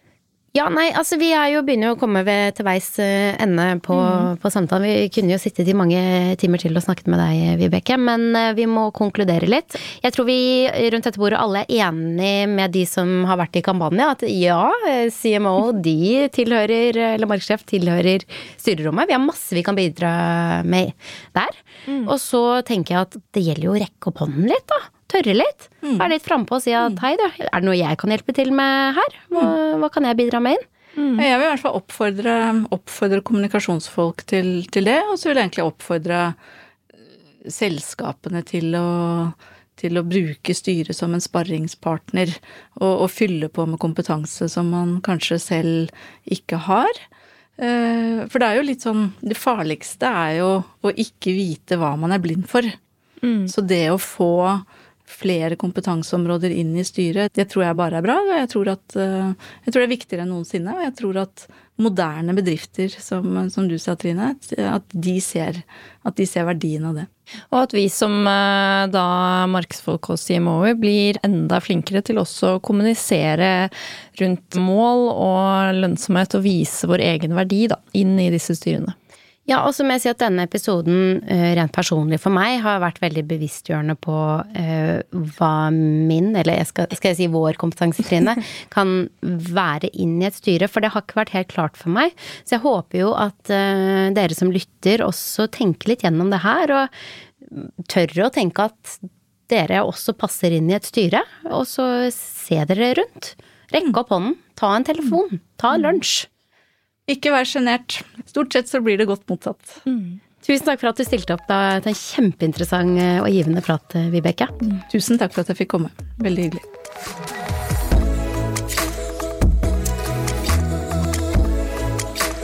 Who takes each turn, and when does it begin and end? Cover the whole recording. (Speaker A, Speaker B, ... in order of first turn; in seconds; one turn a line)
Speaker A: 0.5-30.6
Speaker B: 4.0-4.3
Speaker C: 25.8-26.1
Speaker B: 31.0-31.3
Speaker C: 31.2-36.4
Speaker C: 37.4-46.9
Speaker C: 47.6-52.8
Speaker B: 53.2-53.5
Speaker C: 53.5-67.1
Speaker B: 67.5-78.9
Speaker A: 79.5-96.9
Speaker A: 97.5-106.3
Speaker C: 107.1-109.8
Speaker B: 109.9-110.2
Speaker A: 110.4-114.5
Speaker C: 114.7-116.7